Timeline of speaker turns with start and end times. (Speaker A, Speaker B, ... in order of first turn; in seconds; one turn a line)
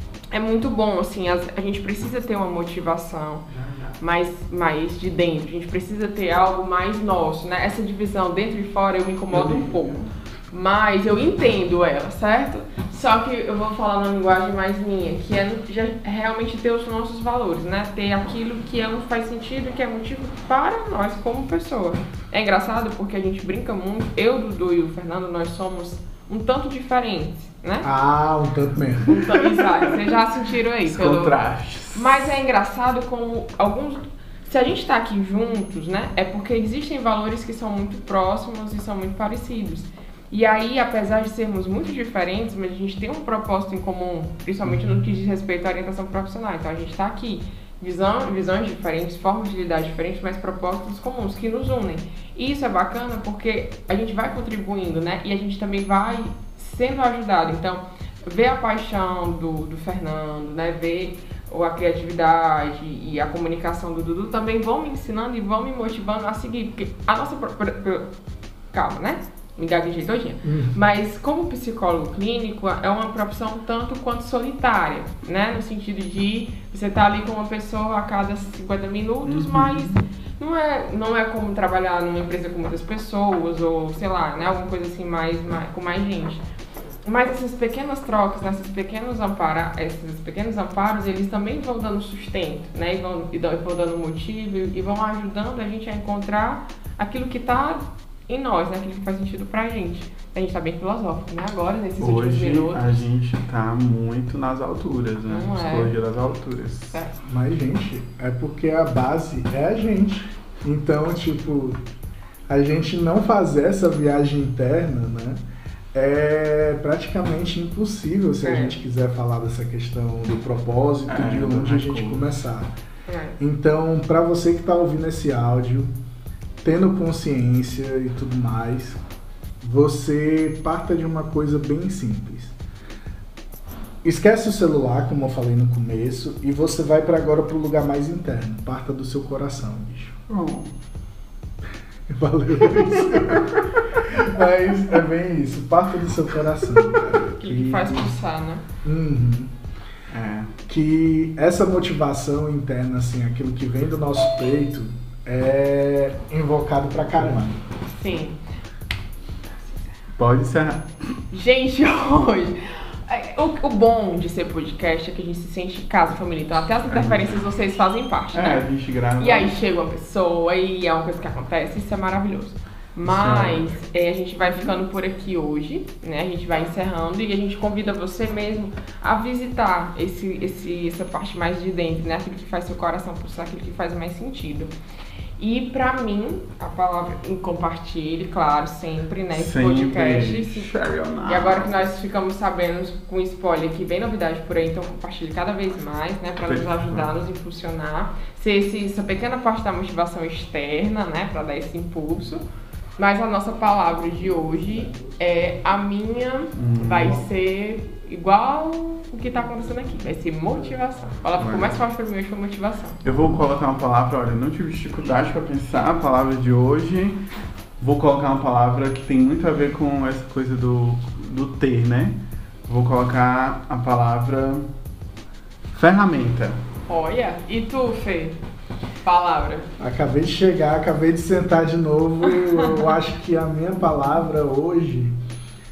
Speaker A: 0.3-3.5
Speaker B: 3.5-4.0
Speaker A: 4.0-27.9
Speaker B: 9.3-10.0
Speaker C: 27.8-29.2
Speaker A: 29.0-31.3
Speaker B: 29.4-29.9
Speaker B: 30.9-32.2
Speaker A: 31.9-68.1
Speaker A: 68.7-86.4
Speaker C: 70.4-70.8
Speaker B: 79.2-80.0
Speaker A: 87.1-102.9
Speaker B: 102.0-107.0
Speaker A: 105.3-105.9
Speaker A: 106.9-107.2
Speaker C: 107.3-111.8
Speaker C: 112.5-115.4
Speaker C: 115.9-122.7
Speaker A: 118.4-118.8
Speaker B: 121.1-122.3
Speaker A: 123.1-123.4
Speaker C: 123.4-125.9
Speaker C: 126.6-129.0
Speaker C: 129.6-132.5
Speaker C: 134.0-140.2
Speaker B: 140.3-140.7
Speaker C: 142.1-148.1
Speaker B: 142.7-143.7
Speaker A: 147.2-148.6
Speaker C: 148.8-149.5
Speaker B: 150.1-150.5
Speaker C: 150.7-157.6
Speaker A: 158.0-158.4
Speaker B: 160.2-160.9
Speaker A: 161.3-168.6
Speaker B: 166.9-167.4
Speaker B: 168.3-169.6
Speaker A: 169.2-184.7
Speaker B: 173.1-173.7
Speaker A: 185.4-190.7
Speaker B: 189.3-191.9
Speaker A: 191.3-202.4
Speaker B: 196.4-197.1
Speaker A: 203.0-213.0
Speaker B: 206.6-207.2
Speaker B: 211.4-211.8
Speaker B: 213.0-217.2
Speaker B: 217.8-224.7
Speaker B: 225.7-226.6
Speaker A: 226.9-228.4
Speaker A: 229.0-229.7
Speaker C: 229.8-235.2